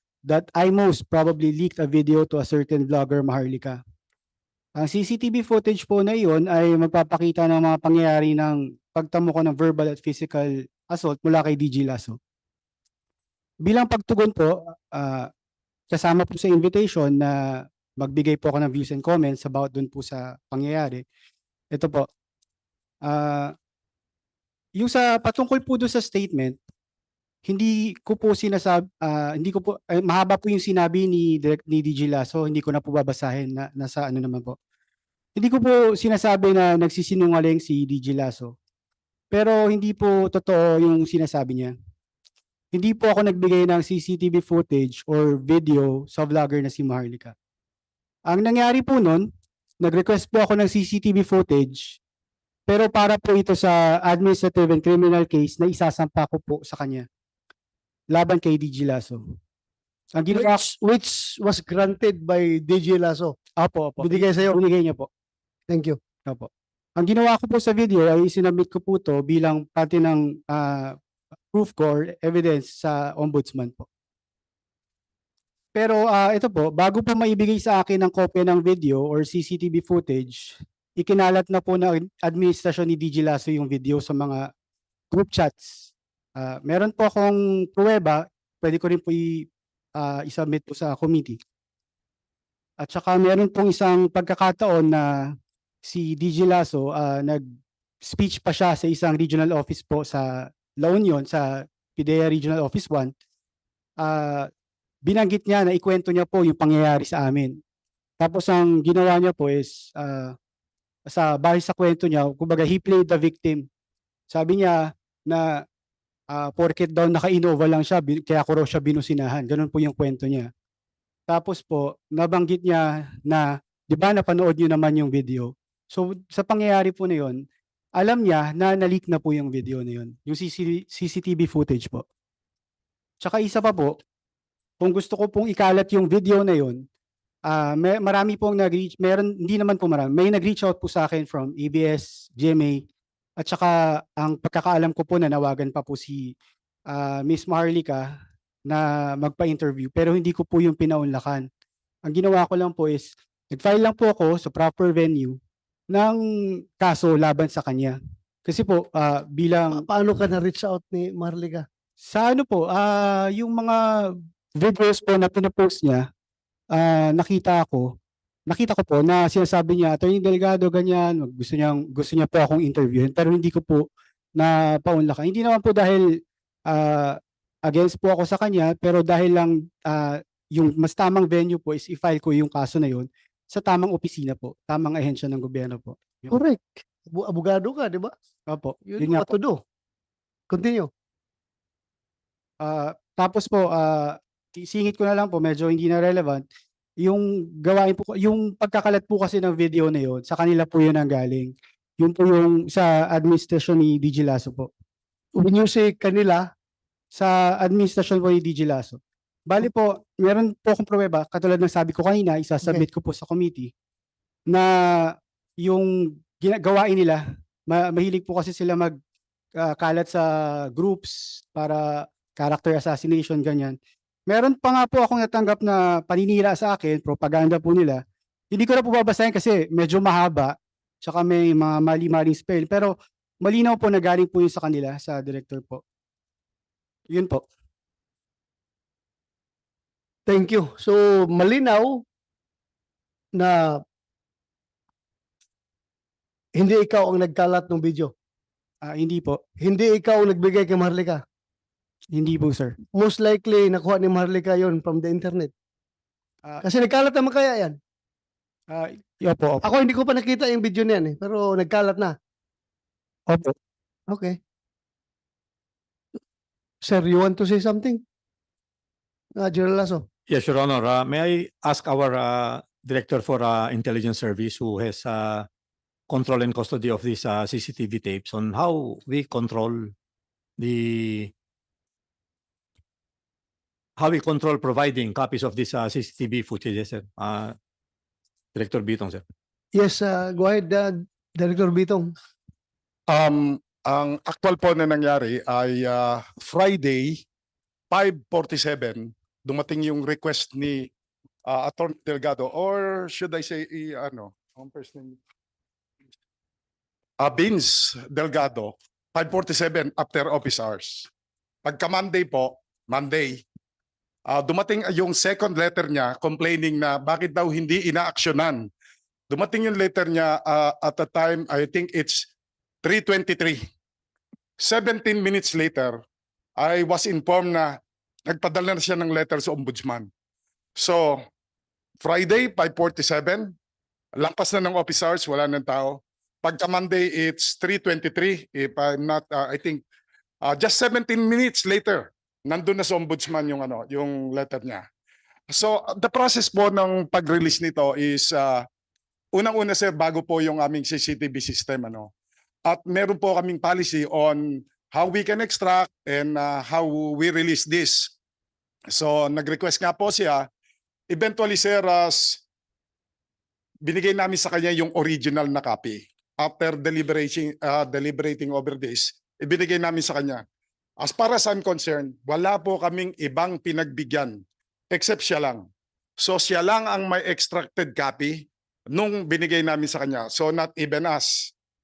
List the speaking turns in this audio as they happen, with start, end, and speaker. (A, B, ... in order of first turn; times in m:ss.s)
0:00.3-0:03.8 A
0:04.8-0:12.2 A
0:13.6-0:15.3 A
0:15.9-0:21.0 A
0:21.7-0:22.1 A
0:23.0-0:23.5 A
0:24.8-0:26.6 A
0:27.4-0:34.6 A
0:35.4-0:38.5 A
0:39.3-0:41.7 A
0:42.7-0:47.3 A
0:48.3-0:49.2 A
0:49.8-0:52.0 A
0:52.7-0:57.0 A
0:58.1-0:59.2 A
1:00.2-1:00.6 A
1:00.3-1:03.4 B
1:03.6-1:05.1 A
1:04.0-1:04.6 B
1:05.7-1:06.0 B
1:06.3-1:11.0 A
1:11.5-1:13.9 A
1:15.7-1:24.5 A
1:25.1-1:31.4 A
1:32.8-1:35.3 A
1:35.8-1:37.4 A
1:38.0-1:43.1 A
1:44.0-1:44.5 A
1:45.0-1:47.6 A
1:48.2-1:50.3 A
1:51.1-1:53.6 A
1:54.3-1:55.6 A
1:56.3-2:00.5 A
2:01.3-2:07.4 A
2:08.0-2:12.0 A
2:13.2-2:14.0 A
2:14.8-2:16.8 A
2:17.5-2:22.8 A
2:23.4-2:26.3 A
2:26.9-2:28.1 A
2:28.7-2:31.5 A
2:32.1-2:35.4 A
2:35.9-2:39.8 A
2:39.8-2:41.6 B
2:42.1-2:46.0 A
2:46.7-2:47.9 A
2:48.5-2:56.0 A
2:56.7-3:06.4 A
3:06.3-3:08.1 B
3:08.5-3:09.3 A
3:08.9-3:09.6 B
3:10.5-3:10.9 B
3:12.6-3:16.4 A
3:17.0-3:24.7 A
3:25.4-3:26.5 B
3:27.1-3:33.7 A
3:34.5-3:39.0 A
3:39.6-3:43.8 A
3:44.3-3:48.0 A
3:48.5-3:55.8 A
3:57.1-3:57.5 A
4:00.3-4:02.0 B
4:03.4-4:03.8 B
4:06.6-4:08.1 B
4:08.8-4:09.4 A
4:09.6-4:11.2 B
4:12.1-4:12.7 A
4:12.9-4:15.5 B
4:16.6-4:17.8 B
4:18.7-4:19.7 A
4:19.6-4:22.1 B
4:24.1-4:24.3 B
4:26.8-4:28.0 B
4:29.4-4:30.0 B
4:30.3-4:35.5 C
4:36.1-4:39.9 C
4:40.6-4:41.3 C
4:44.0-4:47.6 C
4:48.5-4:49.2 C
4:49.7-4:52.1 B
4:53.1-4:57.2 D
4:57.9-5:00.9 D
5:01.4-5:05.2 D
5:07.2-5:11.1 D
5:11.6-5:13.4 D
5:14.3-5:18.7 D
5:19.3-5:22.3 D
5:22.8-5:23.6 D
5:24.6-5:26.0 D
5:26.6-5:30.1 D
5:30.8-5:31.2 D
5:32.0-5:33.5 D
5:34.2-5:39.8 D
5:40.4-5:44.8 D
5:45.5-5:48.6 D
5:49.3-5:52.1 D
5:52.6-5:58.1 D
5:58.9-6:00.5 D
6:01.1-6:02.4 D
6:03.8-6:10.4 D
6:11.0-6:15.6 D
6:16.2-6:21.5 D